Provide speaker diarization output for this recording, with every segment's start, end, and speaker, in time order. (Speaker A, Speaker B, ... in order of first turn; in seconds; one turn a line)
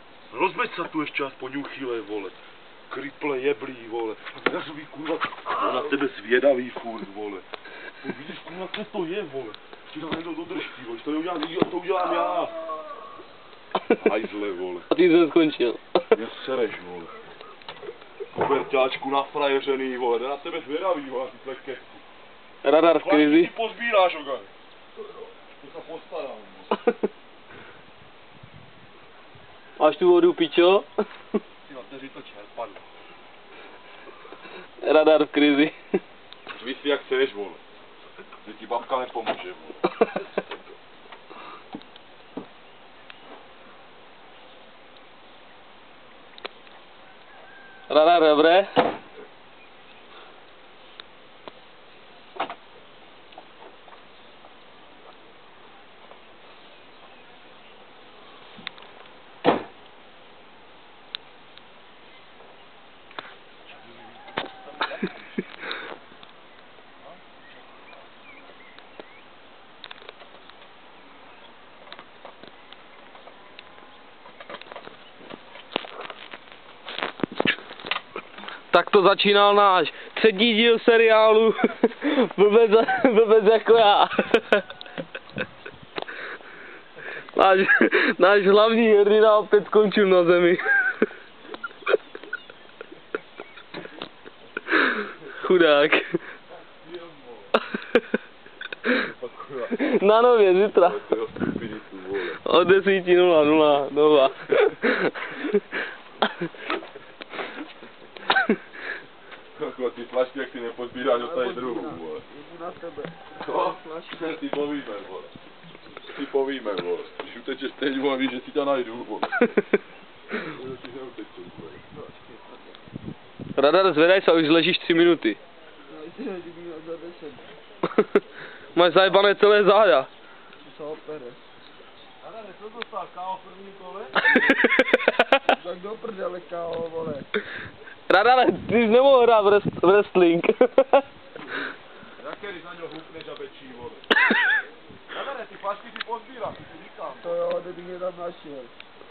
Speaker A: 0.3-2.4
Speaker A: 2.9-7.4
Speaker A: 8.0-12.6
Speaker A: 14.0-14.9
Speaker B: 14.9-15.8
Speaker A: 16.1-17.1
Speaker A: 18.3-22.0
Speaker B: 22.6-23.5
Speaker A: 22.9-24.5
Speaker A: 25.6-26.7
Speaker B: 29.8-30.9
Speaker A: 31.6-32.9
Speaker B: 34.8-35.8
Speaker A: 36.6-37.6
Speaker A: 38.5-39.8
Speaker B: 47.9-48.7
Speaker A: 63.7-65.7
Speaker B: 78.7-84.7
Speaker B: 87.2-90.8
Speaker B: 94.8-96.2
Speaker A: 96.7-97.5
Speaker A: 99.2-99.7
Speaker B: 99.7-101.0
Speaker A: 100.9-102.2
Speaker B: 102.4-105.5
Speaker A: 109.6-112.2
Speaker C: 111.1-114.4
Speaker A: 114.3-115.3
Speaker A: 116.2-119.2
Speaker A: 120.6-121.8
Speaker C: 121.9-122.8
Speaker B: 123.6-125.4
Speaker C: 125.9-127.5
Speaker B: 128.8-130.1
Speaker C: 130.6-131.4
Speaker A: 132.2-134.6
Speaker B: 134.3-135.4
Speaker C: 135.5-137.3
Speaker B: 138.1-141.1
Speaker A: 142.2-144.0
Speaker A: 145.1-147.4
Speaker C: 147.2-148.7